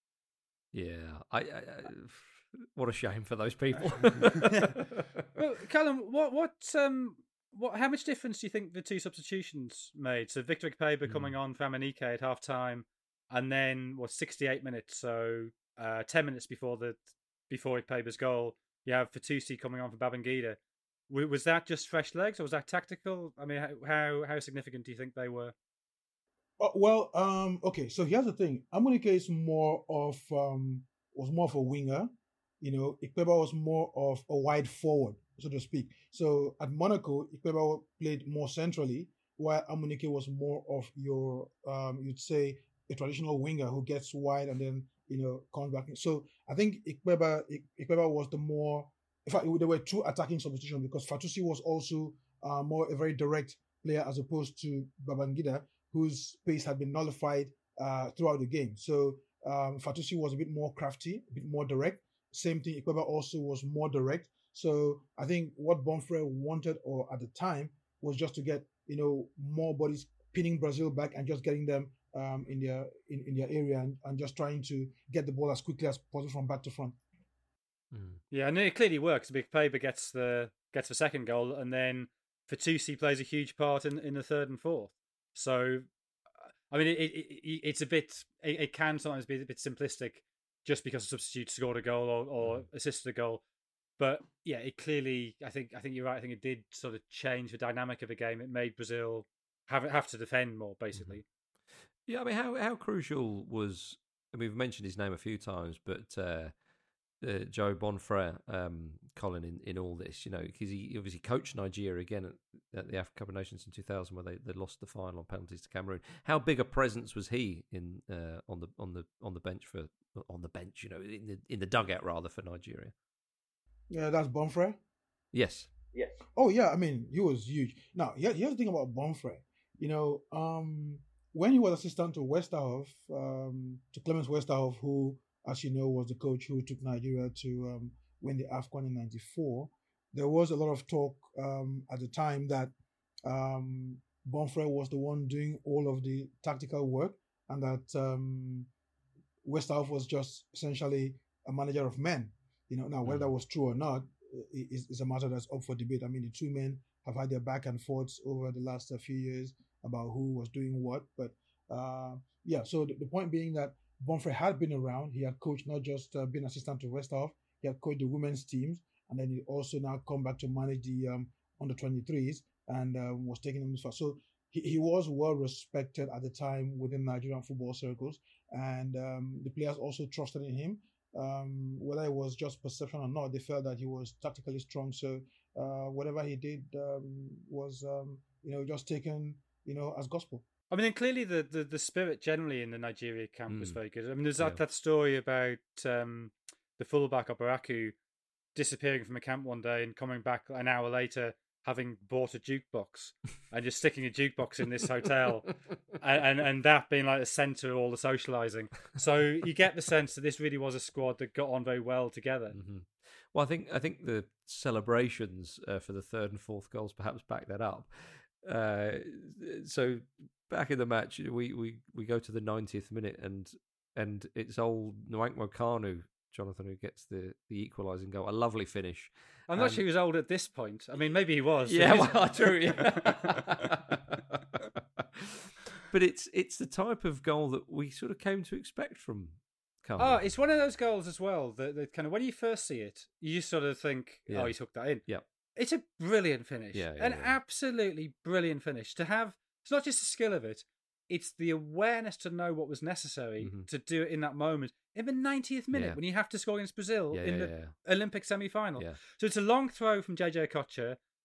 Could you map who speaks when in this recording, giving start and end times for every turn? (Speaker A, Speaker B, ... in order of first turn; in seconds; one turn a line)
Speaker A: 0.7-5.2
Speaker B: 4.4-4.8
Speaker B: 5.4-25.6
Speaker A: 11.1-11.3
Speaker C: 26.6-32.1
Speaker C: 32.6-77.0
Speaker A: 77.9-78.2
Speaker B: 78.3-85.9
Speaker B: 86.7-93.4
Speaker B: 94.0-101.2
Speaker A: 101.0-101.2
Speaker A: 102.1-106.5
Speaker A: 107.2-122.9
Speaker C: 123.9-124.8
Speaker A: 125.3-125.7
Speaker C: 126.3-142.7
Speaker C: 143.2-148.7
Speaker C: 149.4-190.4
Speaker A: 153.1-153.3
Speaker B: 190.7-197.9
Speaker A: 193.5-193.8
Speaker B: 198.6-212.6
Speaker A: 212.5-229.8
Speaker B: 229.5-233.5
Speaker A: 231.7-240.2
Speaker B: 240.0-245.0
Speaker A: 244.3-245.2
Speaker B: 245.6-261.0
Speaker A: 246.7-247.4
Speaker A: 253.4-253.7
Speaker A: 255.7-256.0
Speaker A: 257.1-257.8